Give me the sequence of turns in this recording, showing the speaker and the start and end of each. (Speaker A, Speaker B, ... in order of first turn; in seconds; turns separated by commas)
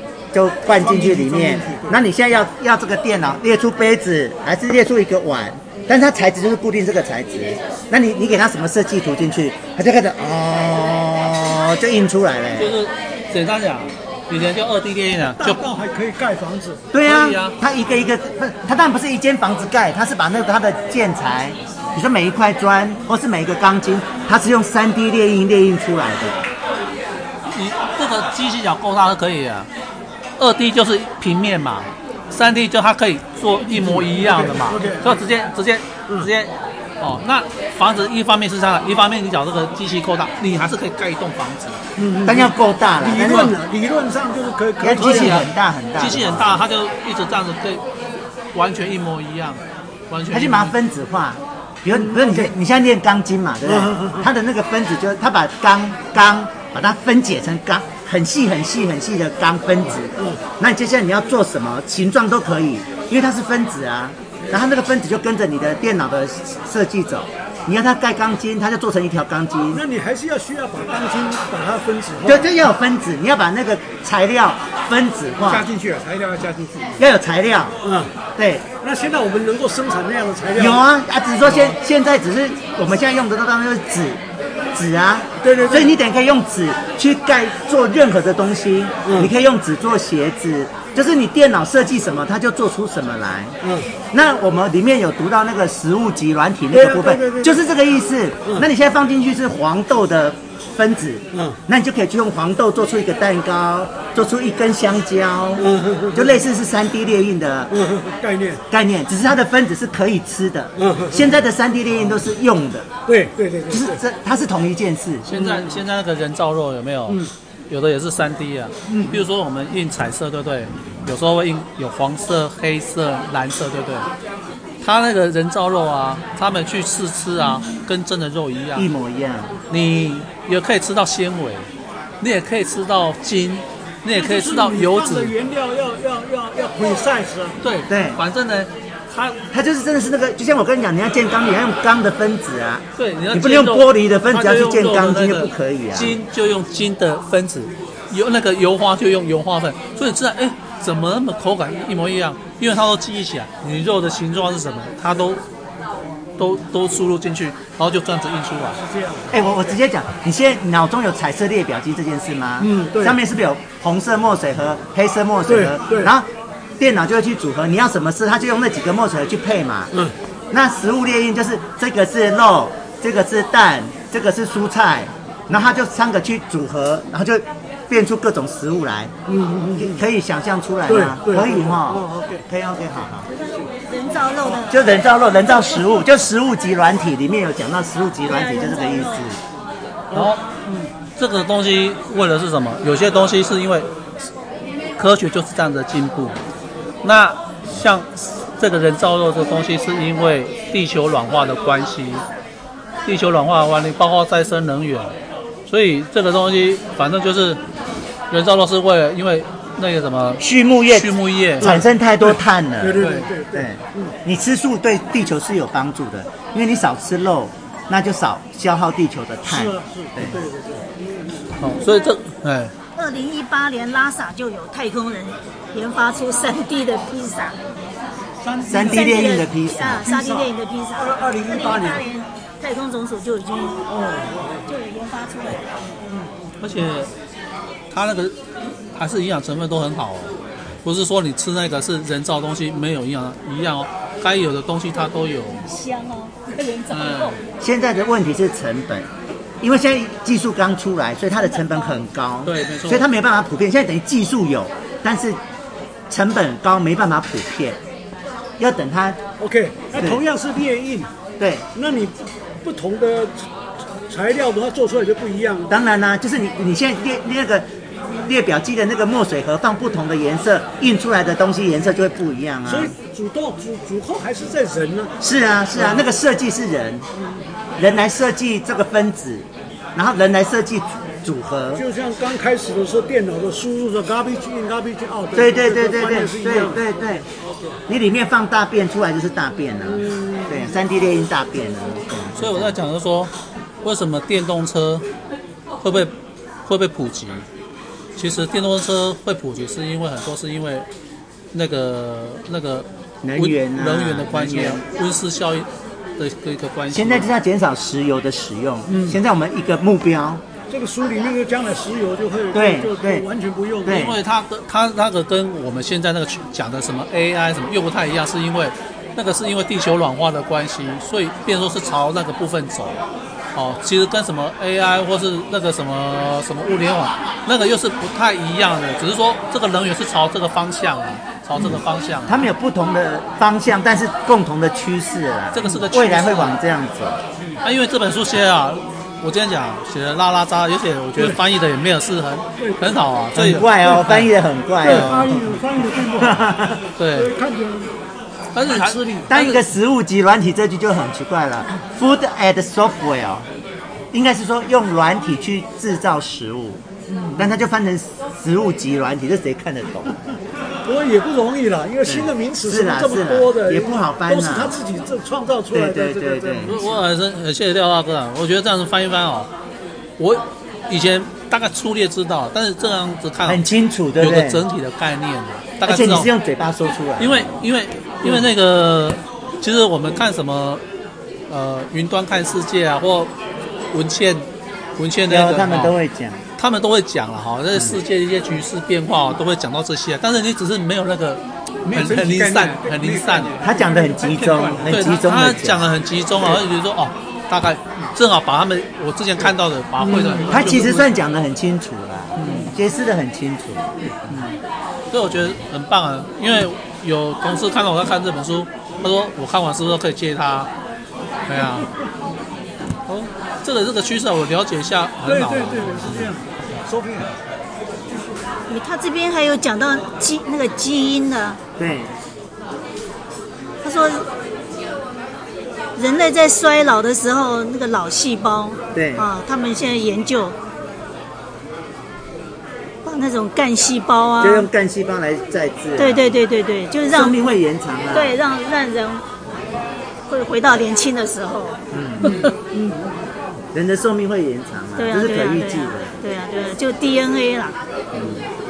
Speaker A: 0.3-12.8, Speaker B: 0.7-2.0, Speaker C: 12.6-15.6, Speaker D: 15.2-16.8, Speaker A: 16.9-26.4, Speaker C: 17.0-17.6, Speaker C: 27.5-29.7, Speaker C: 30.4-41.8, Speaker D: 33.7-35.2, Speaker D: 42.0-45.5, Speaker A: 42.2-43.5, Speaker C: 43.2-43.5, Speaker A: 44.8-46.6, Speaker C: 45.0-47.8, Speaker C: 48.5-50.7, Speaker A: 50.3-69.8, Speaker D: 52.0-52.5, Speaker D: 53.7-54.3, Speaker D: 60.2-60.4, Speaker D: 69.7-72.4, Speaker A: 72.2-75.7, Speaker B: 75.4-77.0, Speaker A: 77.0-77.8, Speaker D: 77.8-78.1, Speaker A: 78.4-78.7, Speaker D: 78.8-80.8, Speaker A: 80.6-84.2, Speaker A: 84.7-93.6, Speaker D: 85.4-85.9, Speaker D: 89.0-89.3, Speaker A: 94.1-107.7, Speaker D: 96.7-97.6, Speaker D: 105.6-106.3, Speaker D: 107.7-108.6, Speaker A: 108.7-112.9, Speaker D: 110.8-111.3, Speaker D: 113.1-114.0, Speaker A: 113.7-115.4, Speaker C: 115.3-124.1, Speaker D: 115.4-115.7, Speaker D: 118.9-119.2, Speaker C: 124.8-128.9, Speaker A: 128.8-129.5, Speaker C: 129.7-131.7, Speaker C: 132.2-135.3, Speaker D: 134.1-137.6, Speaker C: 137.6-139.4, Speaker A: 137.9-138.2, Speaker A: 139.5-146.2, Speaker C: 143.0-155.4, Speaker C: 156.4-158.8, Speaker D: 158.8-159.4, Speaker A: 159.3-169.9, Speaker D: 162.6-163.2, Speaker D: 165.5-166.1, Speaker A: 170.5-179.1, Speaker D: 179.3-180.0, Speaker A: 179.8-183.3, Speaker D: 180.9-182.4, Speaker E: 183.3-184.9, Speaker A: 184.5-189.4, Speaker E: 188.3-189.2, Speaker D: 190.1-190.9, Speaker C: 190.1-190.4, Speaker C: 191.2-193.9, Speaker C: 195.0-196.4, Speaker C: 197.0-202.2, Speaker C: 203.1-205.1, Speaker C: 205.7-207.6, Speaker C: 208.3-211.7, Speaker A: 210.4-220.4, Speaker D: 211.6-214.1, Speaker C: 213.0-213.3, Speaker D: 219.5-221.5, Speaker C: 221.6-222.7, Speaker E: 223.0-227.6, Speaker D: 228.4-229.3, Speaker A: 228.7-230.1, Speaker E: 228.7-233.8, Speaker D: 230.0-232.0, Speaker D: 233.9-234.7, Speaker E: 234.7-235.7, Speaker C: 236.6-237.1, Speaker C: 237.9-238.3, Speaker C: 239.0-240.3, Speaker C: 240.8-245.6, Speaker E: 245.6-247.4, Speaker C: 246.9-247.4, Speaker A: 247.6-249.1, Speaker A: 249.6-255.4, Speaker E: 251.5-251.9, Speaker C: 252.4-253.1, Speaker A: 256.1-257.8, Speaker A: 258.6-259.2, Speaker D: 259.4-261.1, Speaker A: 261.4-261.7, Speaker D: 261.8-263.4, Speaker D: 264.1-265.7, Speaker A: 265.7-267.7, Speaker A: 268.2-272.9, Speaker D: 272.7-275.1, Speaker A: 275.2-277.1, Speaker D: 275.8-276.1, Speaker A: 277.8-281.8, Speaker D: 281.8-286.9, Speaker A: 285.3-287.2, Speaker D: 287.4-287.7, Speaker A: 287.9-292.8, Speaker D: 289.9-290.6, Speaker C: 292.4-293.3, Speaker C: 293.8-295.1, Speaker C: 295.8-296.1, Speaker C: 296.7-297.4, Speaker C: 298.2-300.9, Speaker C: 301.5-305.7, Speaker A: 303.2-304.8, Speaker C: 306.2-307.3, Speaker A: 306.9-310.4, Speaker D: 308.9-309.2, Speaker D: 310.7-314.0, Speaker A: 312.5-313.2, Speaker A: 313.9-314.2, Speaker C: 313.9-323.0, Speaker C: 323.6-332.5, Speaker A: 331.6-337.2, Speaker C: 335.5-336.6, Speaker C: 337.6-344.3, Speaker D: 342.6-342.9, Speaker A: 343.3-345.6, Speaker D: 344.8-347.9, Speaker C: 344.9-345.2, Speaker A: 346.2-346.8, Speaker C: 347.0-347.3, Speaker C: 348.5-349.6, Speaker D: 348.7-349.3, Speaker A: 349.3-353.5, Speaker A: 354.1-356.8, Speaker D: 357.1-357.5, Speaker A: 357.4-360.1, Speaker D: 360.9-366.8, Speaker A: 362.1-364.8, Speaker A: 365.7-366.7, Speaker C: 366.7-369.5, Speaker C: 370.2-373.6, Speaker A: 373.4-374.6, Speaker C: 374.2-376.3, Speaker A: 375.9-377.5, Speaker C: 377.2-380.8, Speaker C: 381.5-383.3, Speaker C: 383.9-384.5, Speaker C: 385.0-385.9, Speaker A: 385.3-386.4, Speaker C: 386.6-393.6, Speaker B: 391.9-395.1, Speaker A: 393.6-395.9, Speaker C: 394.8-401.1, Speaker D: 400.0-400.5, Speaker A: 400.5-404.4, Speaker C: 402.4-402.7, Speaker C: 404.3-404.6, Speaker C: 405.1-410.7, Speaker C: 411.5-411.9, Speaker C: 413.1-416.3, Speaker D: 415.2-417.3, Speaker E: 418.7-421.6, Speaker A: 421.8-422.1, Speaker E: 423.8-424.3, Speaker E: 426.0-430.6, Speaker A: 428.9-429.3, Speaker E: 433.1-434.7, Speaker A: 434.4-436.4, Speaker E: 436.0-437.4, Speaker A: 437.1-438.4, Speaker E: 438.1-439.2, Speaker E: 440.3-441.8, Speaker A: 441.9-442.3, Speaker D: 442.7-443.1, Speaker A: 443.7-446.2, Speaker E: 445.0-447.8, Speaker A: 448.1-448.4